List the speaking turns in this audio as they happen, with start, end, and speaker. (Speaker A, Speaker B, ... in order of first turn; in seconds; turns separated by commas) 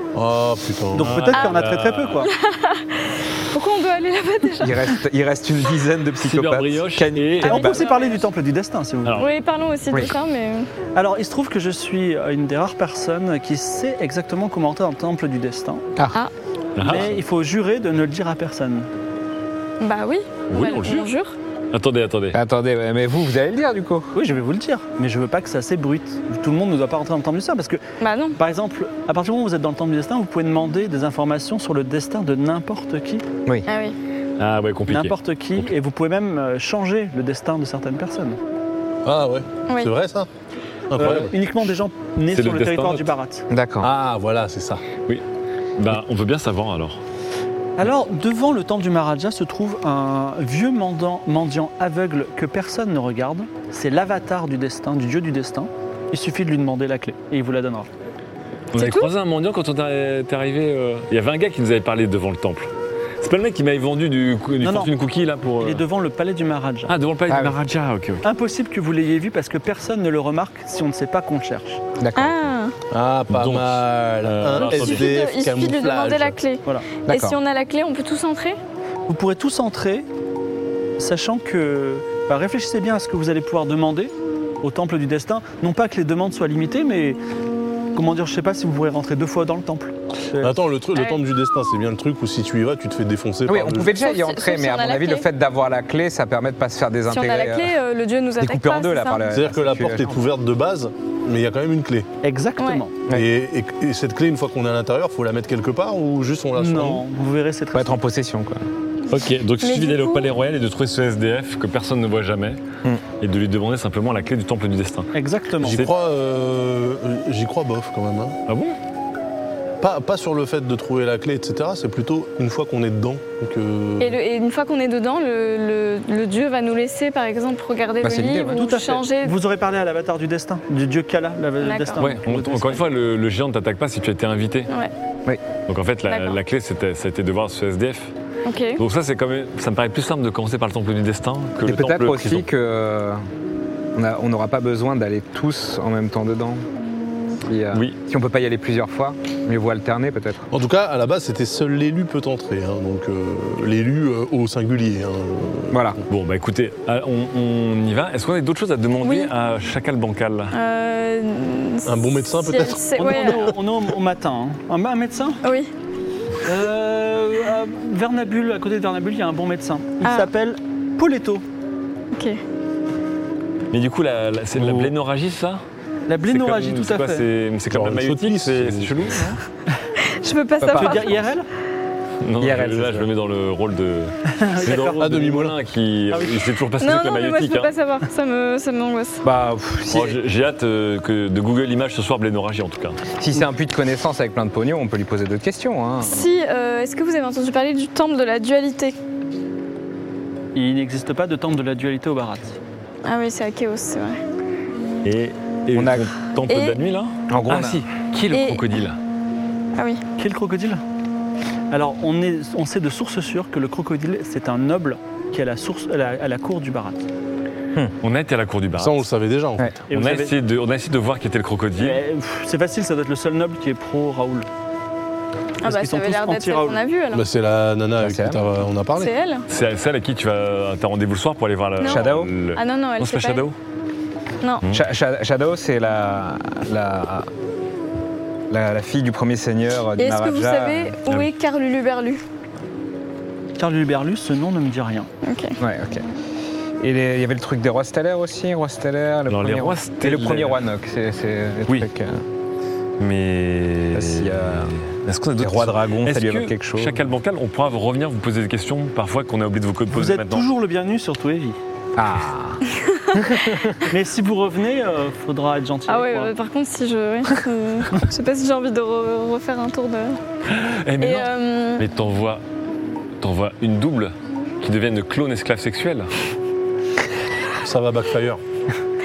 Speaker A: 0.1-1.3, Speaker B: 0.9-2.3, Speaker C: 1.0-2.2, Speaker D: 2.2-5.0, Speaker E: 4.6-7.9, Speaker C: 6.2-7.7, Speaker D: 7.5-8.2, Speaker B: 7.5-9.3, Speaker D: 9.2-10.7, Speaker B: 10.9-15.8, Speaker C: 16.8-17.1, Speaker B: 16.8-18.9, Speaker D: 19.8-21.3, Speaker C: 20.5-21.1, Speaker C: 21.7-22.4, Speaker E: 22.3-24.1, Speaker B: 24.1-27.8, Speaker D: 28.0-28.4, Speaker B: 28.4-33.2, Speaker D: 33.7-33.9, Speaker C: 34.4-35.7, Speaker B: 34.9-38.4, Speaker A: 39.0-40.3, Speaker D: 39.7-39.9, Speaker A: 40.9-41.3, Speaker B: 40.9-43.5, Speaker C: 42.3-43.1, Speaker E: 43.5-44.0, Speaker A: 43.8-44.8, Speaker C: 45.8-47.0, Speaker B: 47.8-57.9, Speaker D: 58.7-59.1, Speaker C: 58.7-65.8, Speaker B: 64.6-64.9, Speaker B: 65.6-66.9, Speaker C: 66.9-68.2, Speaker E: 67.3-67.5, Speaker B: 68.2-71.8, Speaker E: 72.0-72.5, Speaker D: 72.2-72.7, Speaker A: 72.9-76.4, Speaker C: 73.3-75.1, Speaker D: 74.6-78.6, Speaker E: 77.1-77.4, Speaker B: 79.1-80.1, Speaker B: 81.0-87.2, Speaker B: 87.9-90.6, Speaker A: 90.4-93.9, Speaker D: 90.9-91.2, Speaker E: 93.5-97.8, Speaker D: 93.9-95.2, Speaker D: 97.1-99.3, Speaker E: 98.4-100.2, Speaker A: 99.3-102.1, Speaker B: 102.2-102.9, Speaker A: 103.1-107.0, Speaker B: 106.5-108.0, Speaker E: 107.7-108.6, Speaker C: 109.1-112.6, Speaker D: 109.6-110.3, Speaker C: 113.2-115.9, Speaker B: 115.1-115.8, Speaker A: 115.6-118.4, Speaker C: 118.5-118.7, Speaker A: 119.8-124.2, Speaker D: 124.0-129.3, Speaker E: 128.0-128.6, Speaker B: 128.5-132.8, Speaker D: 131.6-132.0, Speaker C: 132.0-134.7, Speaker C: 135.7-138.1, Speaker D: 136.1-136.4, Speaker D: 138.4-138.8, Speaker C: 138.8-142.4, Speaker E: 141.6-143.2, Speaker E: 143.9-146.6, Speaker E: 147.4-150.4, Speaker A: 150.5-155.8, Speaker E: 155.7-156.0, Speaker C: 156.1-160.5, Speaker D: 159.0-159.3, Speaker D: 160.5-163.5, Speaker A: 161.8-163.5, Speaker B: 162.9-165.4, Speaker D: 165.4-165.7, Speaker B: 166.4-171.4, Speaker D: 170.0-170.3, Speaker D: 172.1-172.4, Speaker C: 173.7-175.6, Speaker B: 176.1-177.2, Speaker C: 176.2-179.3, Speaker A: 177.7-179.2, Speaker D: 180.1-181.2, Speaker E: 180.6-181.0, Speaker B: 180.7-181.4, Speaker C: 182.2-187.7, Speaker E: 182.4-183.1, Speaker B: 184.3-185.0, Speaker A: 185.0-185.5, Speaker D: 186.8-189.2, Speaker E: 189.2-190.2, Speaker C: 189.9-193.0, Speaker E: 193.2-196.3, Speaker D: 196.0-198.9, Speaker B: 200.5-202.6, Speaker D: 203.0-204.2, Speaker C: 205.0-209.0, Speaker E: 205.7-206.1, Speaker D: 206.5-206.8, Speaker E: 207.3-207.8, Speaker D: 208.3-208.7, Speaker D: 209.8-210.0, Speaker B: 210.2-210.8, Speaker B: 211.7-217.0, Speaker C: 218.0-219.1, Speaker A: 218.8-219.7, Speaker B: 219.9-220.4, Speaker C: 219.9-222.0, Speaker B: 221.8-224.5, Speaker D: 225.6-227.2, Speaker B: 225.6-226.8, Speaker A: 227.1-229.1, Speaker E: 228.0-228.5, Speaker D: 228.9-229.4, Speaker C: 229.5-233.5, Speaker D: 231.8-233.5, Speaker E: 231.8-232.3, Speaker E: 234.7-237.3, Speaker E: 238.5-240.9, Speaker D: 240.0-242.2, Speaker B: 243.6-245.1, Speaker D: 245.2-245.6, Speaker E: 245.6-246.0, Speaker E: 246.8-252.2, Speaker C: 249.3-250.6, Speaker C: 253.0-260.5, Speaker E: 253.9-254.7, Speaker E: 255.4-257.0, Speaker B: 259.9-261.6, Speaker E: 261.9-262.6, Speaker D: 262.7-263.3, Speaker E: 263.1-263.5, Speaker B: 263.9-266.3, Speaker D: 265.9-270.2, Speaker C: 270.5-272.4, Speaker D: 271.0-271.8, Speaker C: 273.2-276.1, Speaker A: 277.6-278.4